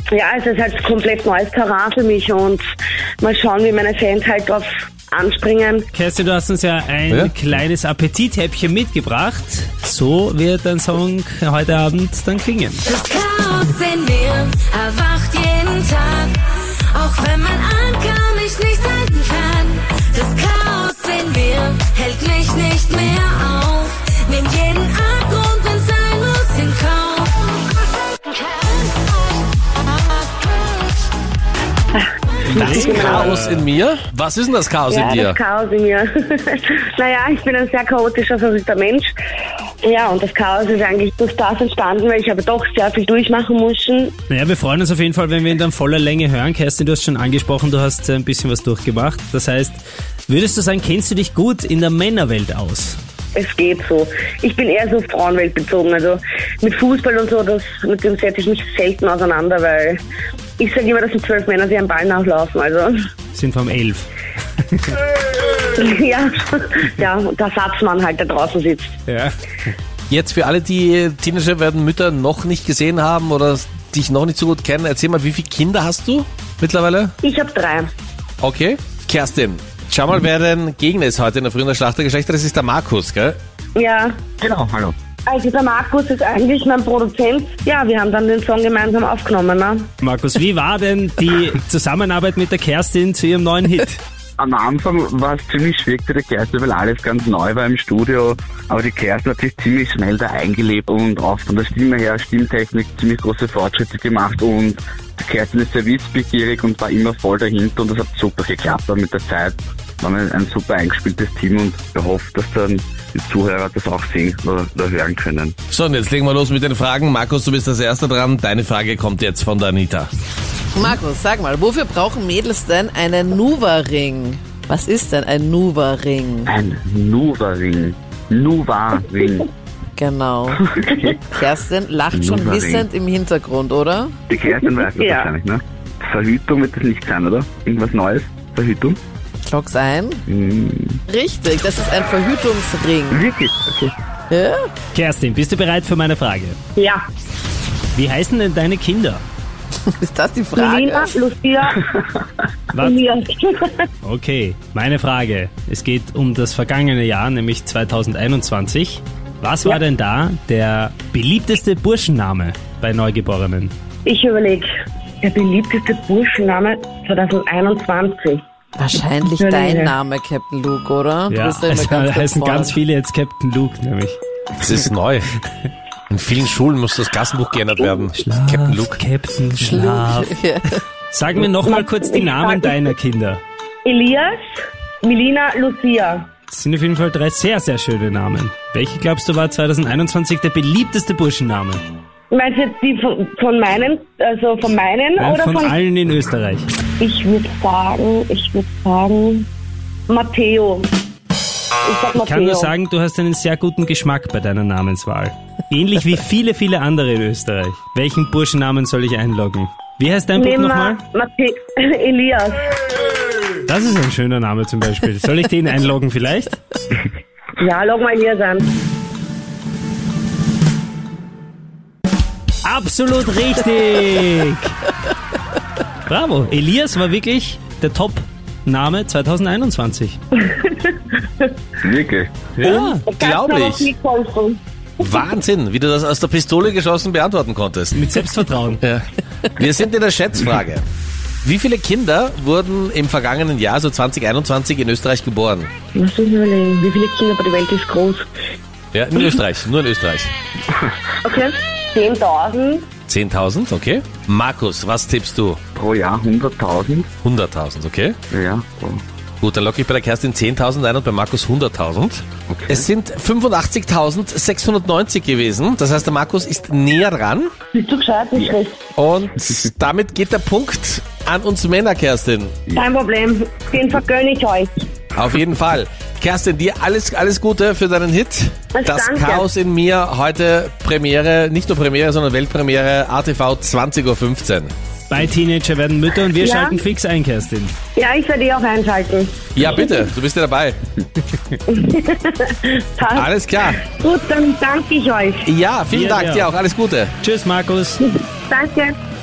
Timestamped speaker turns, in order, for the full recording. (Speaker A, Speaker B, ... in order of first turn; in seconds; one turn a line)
Speaker A: 0.1-2.6
Speaker A: 3.2-5.9
Speaker B: 5.9-12.8
Speaker C: 12.9-27.7
Speaker A: 31.9-33.5
Speaker B: 32.5-33.7
Speaker D: 32.5-35.4
Speaker A: 34.9-39.1
Speaker A: 39.8-44.1
Speaker B: 44.3-53.0
Speaker A: 53.4-60.0
Speaker A: 60.6-63.0
Speaker B: 63.3-64.1
Speaker A: 65.8-68.9
Speaker B: 69.1-69.3
Speaker D: 70.1-77.1
Speaker A: 77.2-77.9
Speaker D: 78.4-83.4
Speaker A: 83.8-84.2
Speaker E: 84.4-85.0
Speaker A: 85.3-89.9
Speaker B: 90.0-94.0
Speaker E: 94.4-115.5
Speaker D: 115.7-120.1
Speaker F: 120.8-126.5
Speaker E: 126.5-129.5
Speaker F: 130.0-130.7
Speaker E: 130.6-131.2
Speaker F: 131.2-134.2
Speaker E: 132.1-132.9
Speaker E: 134.3-139.0
Speaker A: 135.0-135.3
Speaker F: 139.4-140.2
Speaker E: 140.3-141.0
Speaker F: 141.1-143.2
Speaker E: 143.1-143.9
Speaker F: 144.3-144.7
Speaker B: 144.9-146.6
Speaker B: 147.9-149.2
Speaker F: 149.8-151.2
Speaker A: 150.6-151.8
Speaker B: 152.7-153.0
Speaker A: 152.8-153.8
Speaker B: 154.0-163.7
Speaker A: 164.1-164.7
Speaker A: 165.2-168.4
Speaker F: 168.8-172.8
Speaker A: 169.4-169.9
Speaker B: 171.3-174.2
Speaker D: 174.6-175.3
Speaker D: 176.1-179.0
Speaker B: 178.2-180.3
Speaker F: 179.6-180.8
Speaker B: 181.1-183.4
Speaker A: 181.6-182.8
Speaker A: 183.8-184.4
Speaker A: 185.0-186.3
Speaker B: 186.5-191.8
Speaker A: 192.3-195.8
Speaker B: 195.2-196.7
Speaker A: 197.0-199.5
Speaker A: 200.1-200.9
Speaker A: 201.8-202.7
Speaker B: 202.2-211.0
Speaker A: 210.4-212.7
Speaker B: 213.7-216.6
Speaker A: 217.6-218.7
Speaker B: 222.6-224.8
Speaker B: 226.1-230.2
Speaker A: 230.5-231.5
Speaker E: 231.8-232.4
Speaker B: 232.6-233.0
Speaker D: 232.6-233.9
Speaker A: 232.9-234.6
Speaker D: 235.0-238.0
Speaker B: 237.9-238.8
Speaker D: 239.6-240.8
Speaker D: 241.4-245.7
Speaker A: 245.9-248.3
Speaker D: 248.9-250.3
Speaker A: 251.2-252.9
Speaker D: 253.1-255.6
Speaker E: 255.8-257.1
Speaker D: 257.2-258.2
Speaker E: 258.3-259.0
Speaker D: 259.4-267.5
Speaker E: 262.5-262.9
Speaker A: 267.7-268.8
Speaker D: 269.0-272.6
Speaker A: 272.7-274.7
Speaker D: 275.1-284.7
Speaker A: 278.8-279.5
Speaker B: 285.1-287.7
Speaker A: 286.4-286.8
Speaker A: 288.0-289.4
Speaker D: 289.6-290.8
Speaker A: 291.7-293.3
Speaker D: 293.1-293.8
Speaker A: 293.8-295.5
Speaker D: 295.5-297.1
Speaker B: 295.9-296.5
Speaker B: 297.2-298.0
Speaker A: 298.0-299.0